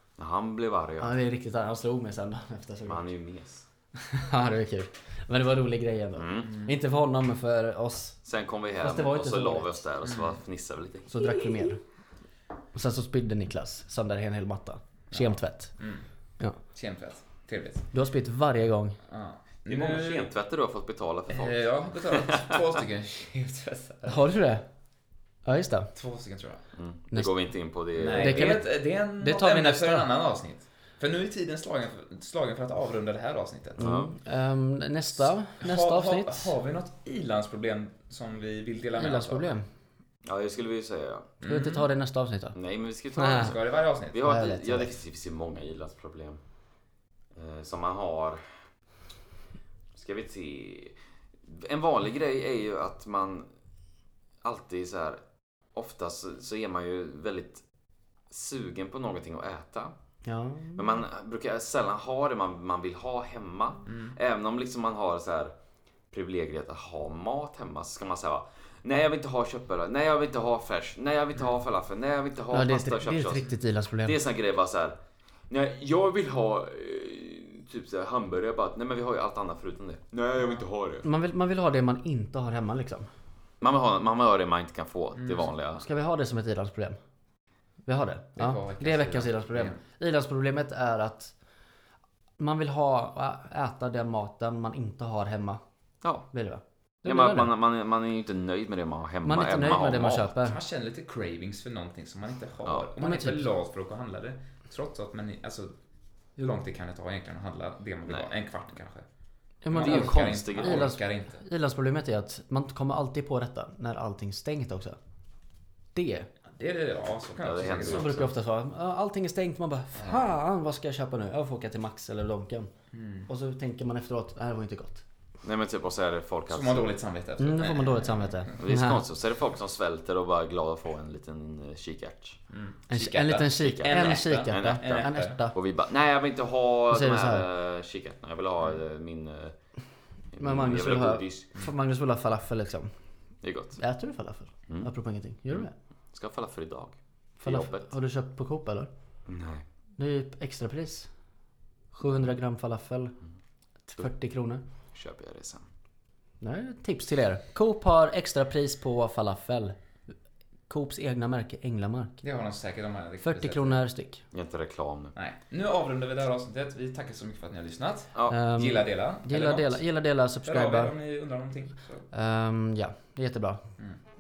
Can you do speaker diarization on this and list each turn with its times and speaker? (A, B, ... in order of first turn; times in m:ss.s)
0:00.2-0:01.2 A
0:01.0-0:03.1 B
0:02.8-0:03.7 A
0:04.0-0:08.2 B
0:06.2-0:06.6 A
0:06.5-0:06.7 C
0:08.2-0:11.1 A
0:08.8-0:09.8 B
0:10.0-0:10.4 C
0:11.1-0:11.8 B
0:12.7-0:15.7 B
0:15.1-0:16.1 C
0:16.7-0:17.9 C
0:17.9-0:19.0 B
0:19.1-0:20.3 C
0:19.7-0:22.6 A
0:21.3-0:24.2 C
0:24.0-0:24.6 B
0:25.4-0:25.9 B
0:26.0-0:26.6 C
0:26.8-0:28.6 A
0:28.0-0:33.9 C
0:28.2-0:30.1 B
0:33.8-0:34.1 A
0:33.8-0:36.6 B
0:35.6-0:39.5 C
0:39.0-0:39.7 B
0:40.2-0:41.3 A
0:41.4-0:41.9 C
0:41.4-0:42.6 B
0:42.6-0:43.6 A
0:43.2-0:43.6 B
0:43.3-0:44.3 C
0:44.1-0:46.4 A
0:44.2-0:45.0 B
0:47.3-0:48.4 A
0:50.0-0:53.5 A
0:54.4-0:55.2 A
0:55.7-0:57.6 A
0:58.3-1:00.0 A
1:00.2-1:00.9 B
1:00.8-1:05.5 A
1:03.9-1:04.2 C
1:06.1-1:13.5 A
1:12.5-1:14.2 B
1:14.0-1:15.0 A
1:15.5-1:21.1 A
1:21.0-1:23.1 B
1:23.6-1:25.8 A
1:25.2-1:25.5 C
1:25.8-1:27.0 B
1:27.9-1:31.3 B
1:28.4-1:29.8 C
1:32.4-1:35.6 B
1:36.0-1:36.3 A
1:36.3-1:37.5 B
1:37.0-1:40.4 A
1:39.2-1:40.6 B
1:40.4-1:45.7 C
1:43.0-1:43.5 B
1:46.4-1:49.0 C
1:49.6-1:55.0 B
1:49.7-1:51.4 C
1:49.7-1:50.9 A
1:55.9-1:56.3 B
1:56.5-1:58.2 C
1:57.4-1:58.3 A
1:57.8-2:02.7 B
2:00.0-2:00.3 C
2:02.9-2:03.3 C
2:03.3-2:05.0 B
2:05.4-2:06.9 A
2:06.5-2:08.5 C
2:07.4-2:09.0 B
2:08.6-2:12.4 A
2:12.5-2:15.4 C
2:12.9-2:15.6 B
2:13.6-2:19.6 A
2:16.9-2:17.5 B
2:20.3-2:21.5 A
2:20.4-2:22.9 B
2:23.4-2:23.8 A
2:23.8-2:25.7 B
2:25.5-2:27.9 A
2:27.4-2:28.9 B
2:29.3-2:29.6 A
2:30.0-2:31.1 B
2:31.9-2:33.2 B
2:33.9-2:34.6 B
2:34.9-2:35.7 A
2:36.4-2:39.8 B
2:40.7-2:42.2 B
2:42.2-2:43.8 C
2:43.2-2:44.2 B
2:44.3-2:45.1 A
2:45.2-2:49.8 C
2:48.2-2:48.4 A
2:48.3-2:50.9 B
2:50.4-2:52.1 C
2:52.1-2:53.6 B